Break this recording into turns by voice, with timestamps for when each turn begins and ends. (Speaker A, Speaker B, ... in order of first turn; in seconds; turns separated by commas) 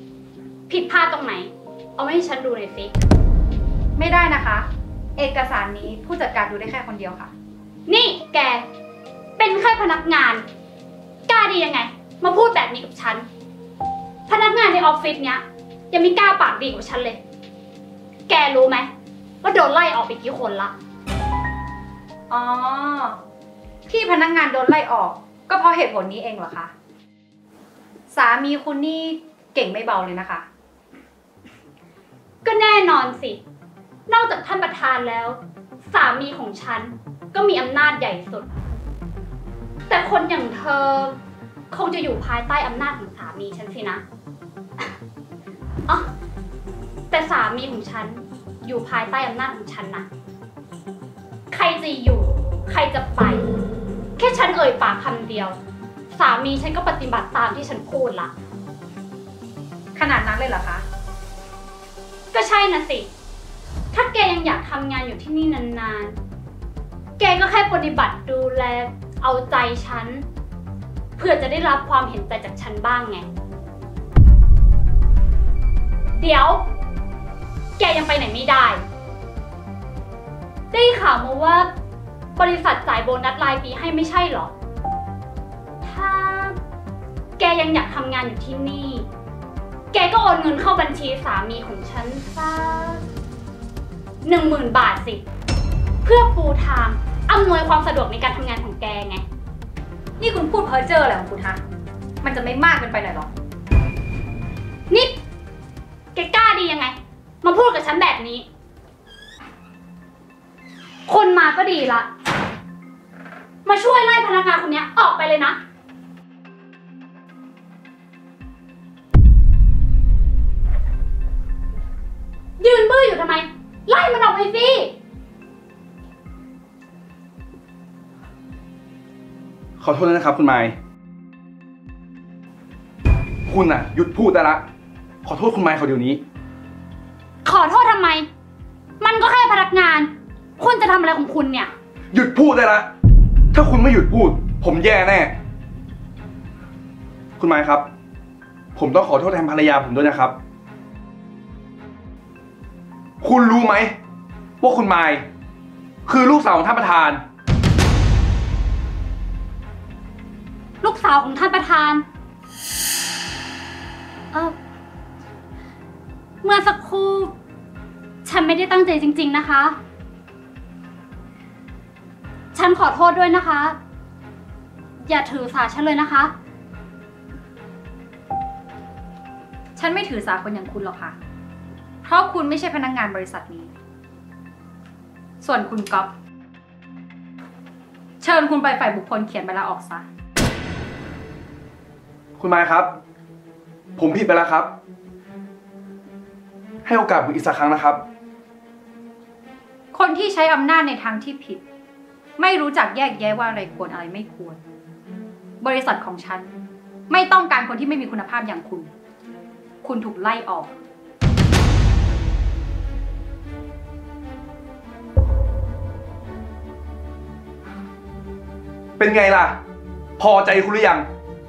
Speaker A: 0.7-2.9, Speaker B: 4.0-7.3, Speaker A: 7.9-8.7, Speaker A: 9.4-10.4, Speaker A: 11.3-13.3, Speaker A: 14.3-17.2, Speaker A: 18.3-18.9, Speaker A: 19.4-20.7, Speaker B: 22.3-23.2, Speaker B: 23.9-26.7, Speaker B: 28.1-30.5, Speaker A: 32.5-33.4, Speaker A: 34.1-38.5, Speaker A: 39.9-41.2, Speaker A: 41.7-44.0, Speaker A: 47.1-50.1, Speaker A: 51.5-53.5, Speaker A: 54.2-55.6, Speaker A: 56.1-58.3, Speaker B: 60.0-60.9, Speaker A: 62.3-63.1, Speaker A: 63.9-66.2, Speaker A: 67.2-70.3, Speaker A: 71.2-73.3, Speaker A: 76.2-76.7, Speaker A: 77.8-78.8, Speaker A: 80.7-81.7, Speaker A: 82.4-84.5, Speaker A: 85.8-86.6, Speaker A: 87.4-89.1, Speaker A: 89.9-93.0, Speaker A: 94.2-95.2, Speaker A: 96.0-99.2, Speaker B: 100.2-101.6, Speaker B: 102.2-103.3, Speaker A: 104.9-105.2, Speaker A: 106.2-108.5, Speaker A: 111.1-112.1, Speaker A: 113.7-115.6, Speaker A: 122.6-124.9, Speaker C: 129.8-130.8, Speaker C: 133.5-134.7, Speaker C: 135.2-136.2, Speaker A: 137.4-138.3, Speaker A: 139.0-141.7, Speaker C: 142.1-142.9, Speaker C: 143.5-145.3, Speaker C: 147.4-147.9, Speaker C: 148.8-150.4, Speaker C: 153.2-154.0, Speaker C: 154.6-155.3, Speaker C: 156.1-157.2, Speaker A: 160.8-162.0, Speaker A: 166.4-167.3, Speaker A: 168.2-169.8, Speaker A: 172.5-173.8, Speaker A: 175.0-176.3, Speaker B: 179.8-181.2, Speaker B: 182.0-183.7, Speaker B: 185.4-186.1, Speaker B: 188.2-190.1, Speaker C: 192.4-193.0, Speaker C: 194.0-194.7, Speaker C: 196.8-198.0, Speaker B: 199.9-201.6, Speaker B: 202.4-204.6, Speaker B: 205.6-208.9, Speaker B: 209.8-210.8, Speaker C: 219.0-219.6, Speaker C: 220.2-221.1